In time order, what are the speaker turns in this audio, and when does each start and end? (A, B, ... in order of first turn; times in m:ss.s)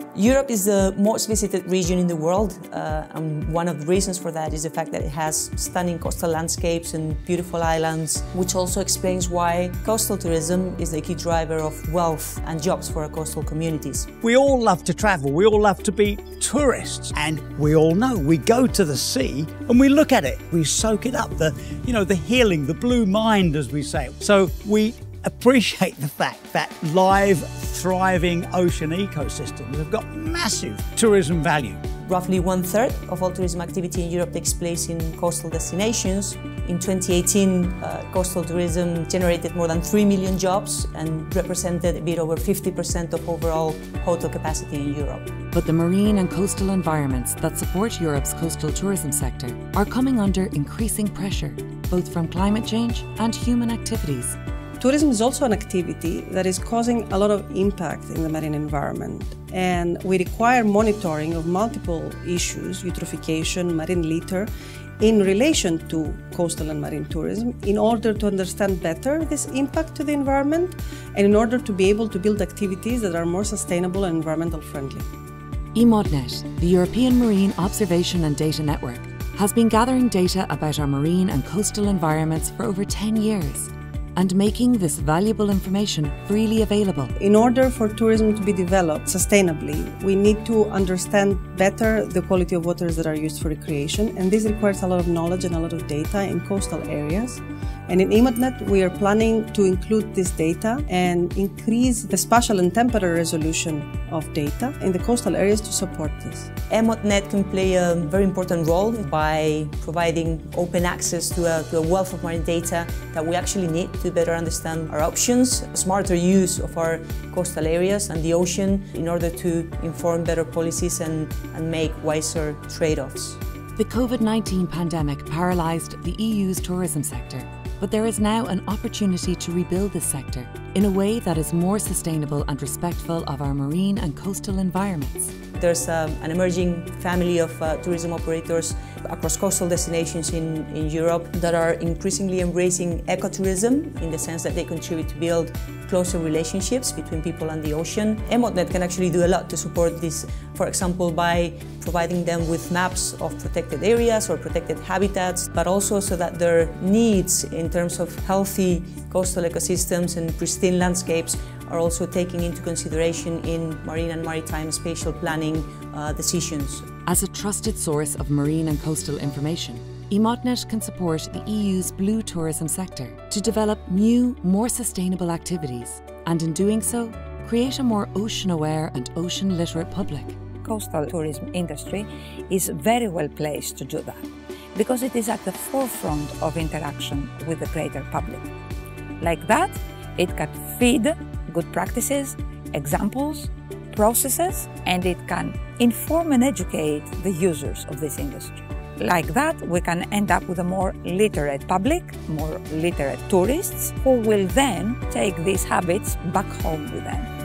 0:00.1-0:14.1 A
0:14.2-0:31.8 B
0:32.0-0:45.3 A
0:45.5-0:54.4 C
0:54.8-1:15.0 D
1:15.7-1:27.1 C
1:27.2-1:46.5 D
1:46.7-2:03.4 A
2:03.8-2:15.3 C
2:15.6-2:46.9 A
2:47.0-3:00.4 C
3:00.6-3:08.5 E
3:09.2-3:27.3 E